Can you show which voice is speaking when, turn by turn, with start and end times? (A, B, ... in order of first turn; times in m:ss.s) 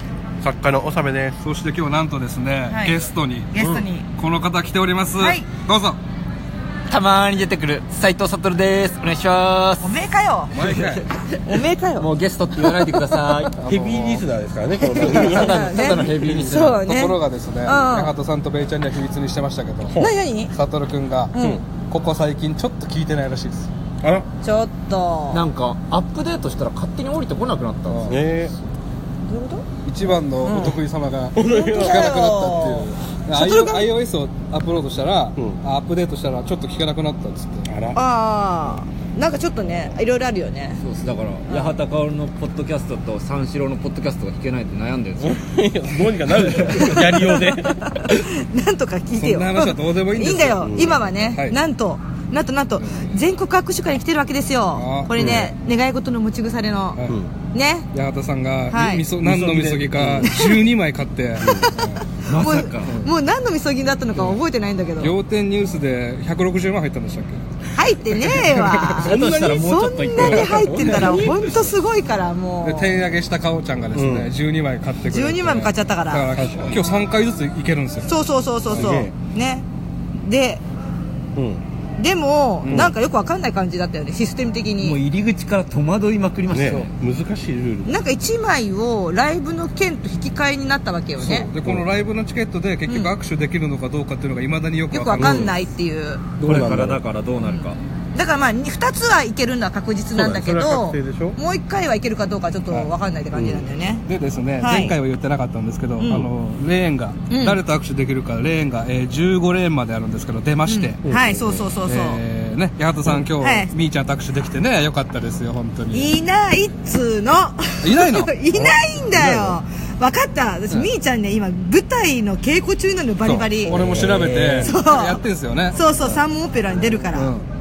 0:00.4-0:01.4 A
0:01.4-0:06.0 B
0:02.7-0:03.0 C
0:03.5-0:04.1 C
0:05.2-0:05.4 C
0:06.9-0:09.9 D
0:09.8-0:10.5 C
0:10.5-0:11.0 B
0:10.5-0:11.4 D
0:11.4-0:12.1 C
0:12.0-0:13.5 D
0:13.0-0:13.5 C
0:13.6-0:16.6 A
0:13.6-0:14.2 B
0:14.8-0:18.1 C
0:15.0-0:16.5 D
0:15.0-0:20.0 B
0:20.0-0:20.5 C
0:20.5-0:23.7 B
0:21.3-0:21.6 C
0:24.0-0:24.3 A
0:24.4-0:25.4 C
0:25.3-0:28.1 D
0:27.9-0:28.2 B
0:28.1-0:28.5 A
0:29.2-0:29.6 C
0:29.8-0:37.7 B
0:30.4-0:30.8 C
0:31.3-0:32.3 A
0:31.4-0:33.9 C
0:37.6-0:38.0 A
0:37.9-0:40.8 C
0:40.8-0:45.4 D
0:41.5-0:41.8 C
0:45.2-0:47.8 A
0:46.3-0:47.1 D
0:47.4-0:57.0 C
0:49.2-0:51.6 B
0:50.6-0:51.0 A
0:52.8-0:53.3 B
0:54.7-0:55.4 B
0:55.2-0:55.5 A
0:56.9-0:57.2 B
0:57.5-0:57.9 C
0:57.9-1:02.0 B
0:58.7-0:59.0 C
0:59.2-1:00.3 A
1:00.2-1:00.6 C
1:01.4-1:01.7 A
1:01.4-1:05.1 C
1:02.2-1:03.0 D
1:02.8-1:03.1 B
1:04.1-1:04.4 B
1:05.0-1:09.4 B
1:07.7-1:12.9 C
1:09.0-1:11.5 D
1:09.1-1:09.6 A
1:10.2-1:10.7 B
1:10.2-1:11.5 A
1:12.6-1:18.1 B
1:13.9-1:14.3 A
1:15.1-1:16.3 C
1:16.3-1:16.8 A
1:18.0-1:20.6 C
1:18.7-1:19.0 B
1:18.7-1:19.1 A
1:21.3-1:21.6 A
1:22.0-1:25.0 C
1:22.6-1:22.9 B
1:22.7-1:22.9 A
1:24.8-1:26.9 D
1:26.5-1:28.0 A
1:27.8-1:31.5 C
1:31.2-1:35.5 B
1:32.9-1:33.1 C
1:34.9-1:36.2 C
1:35.2-1:35.5 A
1:36.4-1:36.8 B
1:36.4-1:37.0 A
1:36.4-1:37.8 D
1:37.5-1:44.0 C
1:40.1-1:41.4 A
1:43.3-1:43.7 A
1:44.0-1:51.0 B
1:44.6-1:44.9 C
1:46.0-1:46.2 C
1:47.3-1:47.6 C
1:50.6-1:52.2 C
1:51.0-1:51.7 A
1:51.8-1:56.2 B
1:53.4-1:53.7 C
1:55.9-2:03.8 C
1:57.8-1:58.3 B
1:58.5-1:59.6 A
2:03.2-2:06.2 B
2:03.6-2:04.8 D
2:04.6-2:05.2 C
2:05.7-2:07.3 C
2:06.7-2:07.0 A
2:07.1-2:07.4 B